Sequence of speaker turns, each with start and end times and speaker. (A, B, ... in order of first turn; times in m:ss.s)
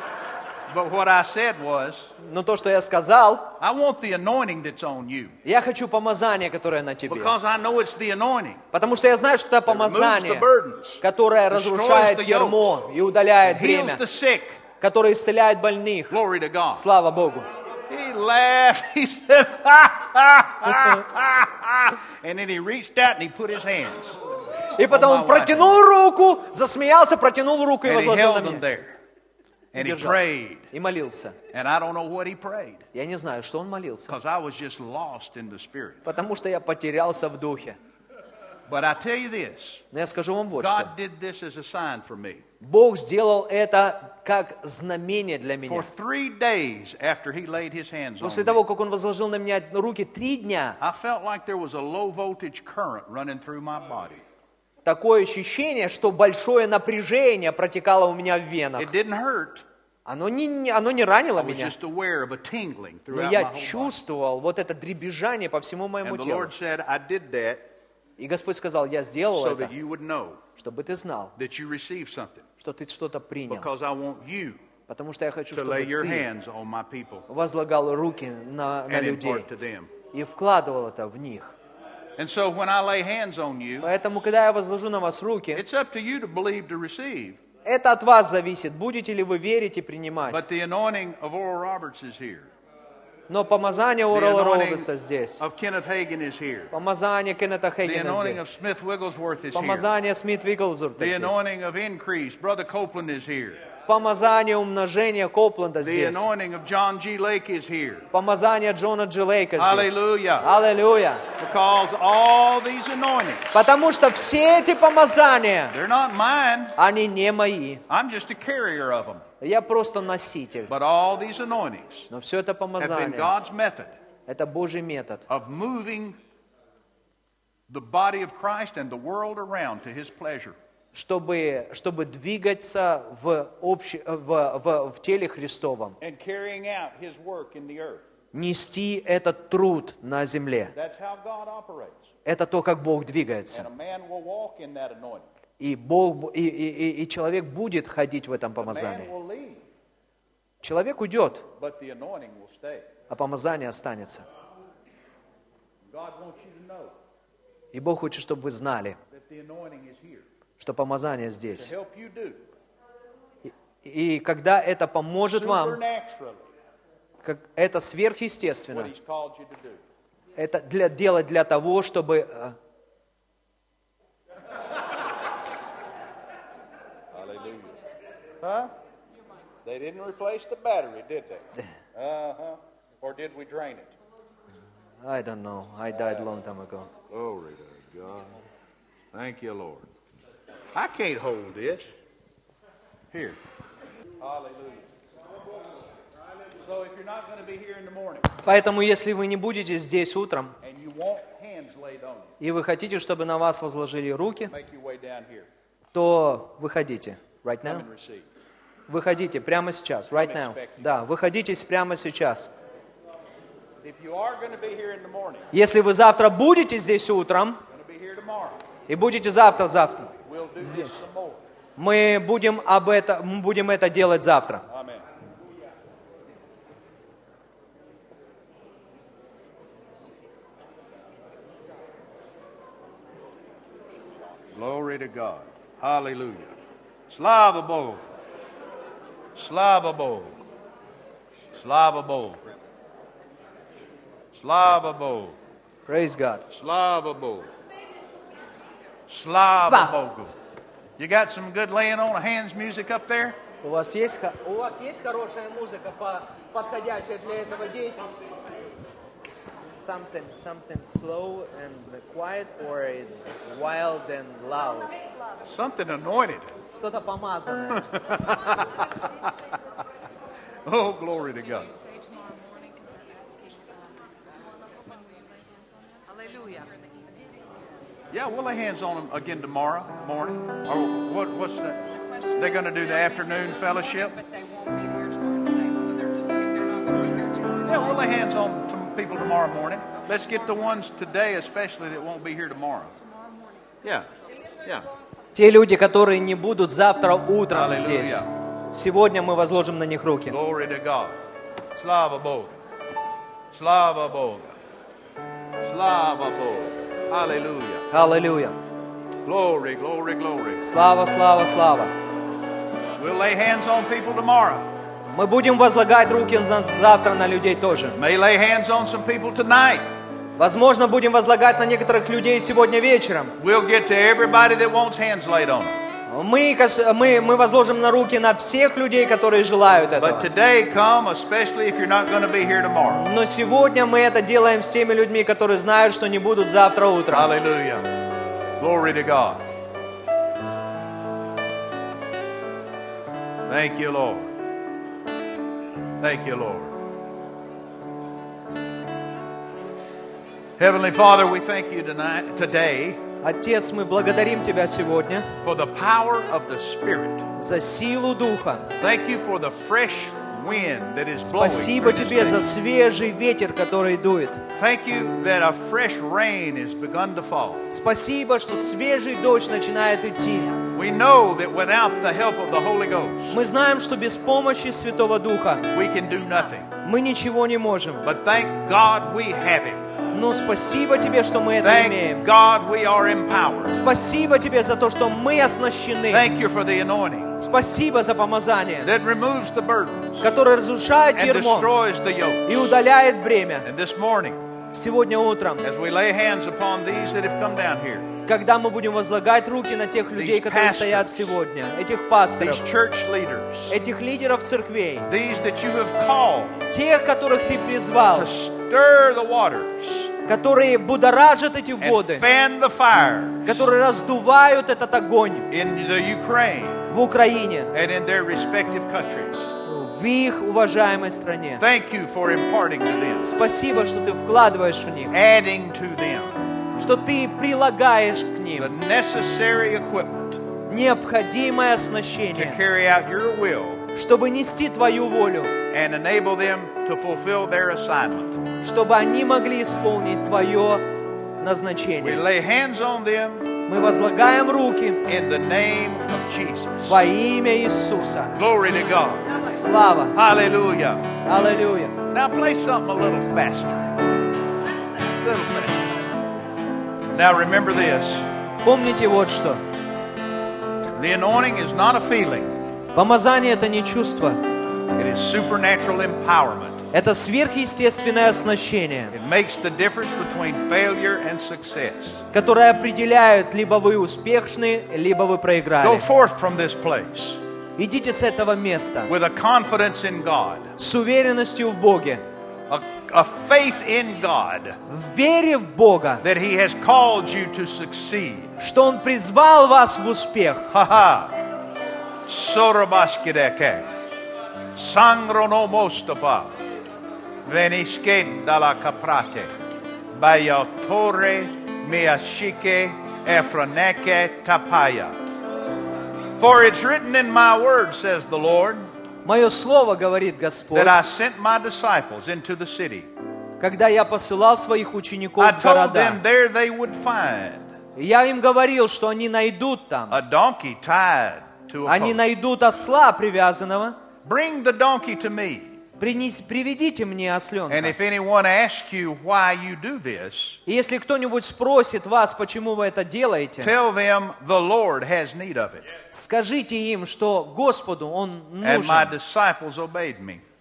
0:00.7-0:02.1 A
0:02.2-0:03.6 B
0:03.6-0:05.4 A
0:05.4-0:07.4 B
0:07.1-0:08.6 A
0:08.7-0:10.5 B
0:09.7-0:12.7 A
0:11.0-0:14.0 B
0:13.4-0:14.6 A
0:14.8-0:16.2 B
0:16.1-0:16.8 A
0:16.7-0:17.5 B
0:17.9-0:24.2 A
0:24.8-0:28.7 B
0:24.9-0:25.8 A
0:27.8-0:29.0 A
0:29.7-0:30.7 A
0:29.8-0:31.4 B
0:31.5-0:32.9 A
0:32.9-0:34.2 B
0:34.1-0:36.1 A
0:36.0-0:37.8 B
0:38.7-0:39.8 A
0:39.9-0:40.9 B
0:40.6-0:42.4 A
0:42.6-0:45.9 B
0:45.7-0:48.6 A
0:48.2-0:50.8 B
0:50.8-0:54.2 A
0:54.8-0:58.9 B
0:58.8-0:59.6 A
1:00.1-1:01.7 B
1:01.4-1:04.0 A
1:03.1-1:06.5 B
1:06.0-1:07.7 A
1:08.2-1:09.7 B
1:09.3-1:10.4 A
1:10.6-1:11.4 B
1:11.4-1:12.5 A
1:12.6-1:13.7 B
1:13.5-1:14.6 A
1:14.9-1:16.3 B
1:15.5-1:17.3 A
1:17.3-1:19.5 B
1:18.9-1:19.9 A
1:20.1-1:21.5 B
1:22.2-1:23.9 A
1:23.8-1:25.6 B
1:25.5-1:27.4 A
1:27.6-1:30.4 B
1:30.3-1:32.5 A
1:33.3-1:35.4 B
1:34.1-1:36.7 A
1:36.7-1:38.4 B
1:37.8-1:39.9 A
1:39.5-1:41.4 B
1:41.0-1:43.6 A
1:43.9-1:46.2 B
1:45.8-1:48.1 A
1:48.1-1:51.3 B
1:49.6-1:50.5 A
1:51.4-1:53.6 A
1:53.5-1:55.8 B
1:55.7-1:56.8 A
1:56.8-1:57.8 B
1:57.9-1:59.2 A
1:59.4-2:00.7 B
2:00.7-2:02.1 A
2:02.1-2:03.3 B
2:02.8-2:03.9 A
2:04.3-2:05.3 B
2:05.3-2:06.2 A
2:07.7-2:10.6 A
2:10.9-2:16.0 B
2:16.0-2:18.0 A
2:18.3-2:20.7 B
2:20.7-2:22.1 A
2:22.2-2:23.7 B
2:23.5-2:25.3 A
2:25.6-2:29.1 B
2:28.6-2:29.6 A
2:30.6-2:31.5 B
2:31.6-2:32.9 A
2:33.1-2:34.3 B
2:35.9-2:36.9 A
2:37.7-2:39.0 B
2:39.1-2:40.3 A
2:40.6-2:41.7 B
2:41.6-2:42.5 A
2:43.4-2:45.8 B
2:45.3-2:46.4 A
2:47.2-2:48.9 B
2:48.7-2:49.8 A
2:50.4-2:52.6 B
2:57.1-2:57.8 A
2:58.4-2:58.7 A
2:59.6-3:03.9 A
3:05.0-3:06.9 B
3:07.1-3:08.4 A
3:09.1-3:09.9 A
3:10.8-3:11.9 A
3:13.1-3:13.4 A
3:14.2-3:14.9 A
3:16.6-3:18.3 A
3:18.4-3:20.6 B
3:20.6-3:22.4 A
3:22.4-3:24.5 B
3:24.5-3:25.5 A
3:25.9-3:27.8 B
3:27.6-3:28.3 A
3:28.9-3:32.5 B
3:30.1-3:31.0 A
3:33.8-3:35.5 A
3:35.5-3:37.6 B
3:37.7-3:38.6 A
3:38.9-3:41.0 B
3:40.2-3:41.4 A
3:41.8-3:44.6 B
3:44.7-3:45.0 A
3:54.5-3:56.6 A
3:57.1-3:58.1 A
3:59.4-4:00.4 A
4:01.6-4:02.5 A
4:04.3-4:05.4 A
4:05.9-4:06.4 B
4:06.5-4:07.5 A
4:09.1-4:10.3 A
4:11.0-4:13.4 A
4:13.6-4:18.1 B
4:19.8-4:25.0 B
4:25.4-4:26.5 A
4:26.8-4:28.0 B
4:27.7-4:29.6 A
4:30.6-4:31.7 A
4:31.5-4:37.6 C
4:38.1-4:44.2 A
4:41.9-4:48.1 C
4:47.6-4:52.9 A
4:50.0-4:50.8 C
4:53.0-4:53.8 C
4:55.4-5:00.4 B
4:57.5-4:58.3 A
5:00.3-5:01.2 A
5:01.8-5:02.6 A
5:03.5-5:04.6 A
5:05.6-5:07.9 A
5:07.9-5:08.6 B
5:09.2-5:10.6 A
5:10.6-5:11.9 B
5:13.0-5:14.7 A
5:15.1-5:18.0 B
5:18.0-5:19.9 A
5:20.4-5:23.4 B
5:23.4-5:25.8 A
5:26.1-5:30.3 B
5:30.0-5:33.1 A
5:32.9-5:37.3 B
5:37.1-5:37.9 A
5:38.6-5:39.4 A
5:43.5-5:44.3 A
5:46.0-5:46.8 A
5:50.6-5:53.0 A
5:53.2-5:55.3 B
5:55.4-5:57.3 A
5:57.4-5:58.7 B
5:58.8-6:02.5 A
6:01.2-6:04.4 B
6:04.5-6:07.7 A
6:07.7-6:10.6 B
6:10.7-6:13.4 A
6:13.3-6:15.7 B
6:15.7-6:16.7 A
6:16.8-6:18.1 B
6:18.0-6:19.9 A
6:20.1-6:22.3 B
6:21.6-6:23.8 A
6:23.7-6:26.3 B
6:26.1-6:27.4 A
6:27.4-6:28.9 B
6:28.8-6:30.2 A
6:30.2-6:31.8 B
6:31.2-6:32.8 A
6:32.5-6:33.7 B
6:33.6-6:34.4 A
6:34.7-6:35.6 B
6:35.6-6:38.1 A
6:38.2-6:42.6 B
6:40.2-6:41.4 A
6:42.4-6:43.8 A
6:43.7-6:45.1 B
6:45.1-6:46.7 A
6:46.7-6:48.3 B
6:48.1-6:50.1 A
6:50.2-6:52.3 B
6:51.8-6:53.7 A
6:53.5-6:55.5 B
6:55.5-6:56.9 A
6:56.9-6:57.7 B
6:57.7-6:59.6 A
6:59.6-7:01.6 B
7:01.6-7:03.3 A
7:03.2-7:05.1 B
7:05.1-7:06.3 A
7:06.8-7:08.7 B
7:08.6-7:10.4 A
7:10.7-7:12.6 B
7:12.3-7:13.9 A
7:14.0-7:15.6 B
7:15.7-7:18.4 A
7:18.6-7:22.2 B
7:22.0-7:23.5 A
7:23.7-7:25.0 B
7:25.0-7:27.1 A
7:26.9-7:28.4 B
7:28.4-7:29.4 A
7:29.3-7:30.2 B
7:30.1-7:31.1 A
7:31.2-7:32.0 B
7:32.1-7:34.0 A
7:35.1-7:35.9 A
7:37.1-7:38.3 A
7:38.6-7:39.6 B
7:41.0-7:42.6 A
7:42.9-7:44.4 B
7:44.9-7:46.9 A
7:46.9-7:49.2 B
7:49.1-7:52.2 A
7:52.3-7:56.1 B
7:55.8-7:57.4 A
7:57.8-7:59.1 B
7:59.1-8:00.8 A
8:00.8-8:02.2 B
8:02.7-8:04.8 A
8:04.9-8:06.2 B
8:06.2-8:08.6 A
8:08.6-8:10.7 B
8:10.7-8:11.4 A
8:12.3-8:13.9 A
8:14.8-8:16.6 A
8:17.4-8:19.5 A
8:20.1-8:25.2 A
8:26.4-8:28.9 A
8:29.2-8:31.0 B
8:30.7-8:33.1 A
8:33.6-8:36.2 B
8:35.4-8:37.8 A
8:38.0-8:40.2 B
8:40.1-8:42.2 A
8:41.9-8:44.0 B
8:44.2-8:45.8 A
8:46.0-8:48.0 B
8:47.7-8:50.6 A
8:50.7-8:53.7 B
8:53.6-8:55.9 A
8:56.1-8:59.2 B
8:58.6-9:00.4 A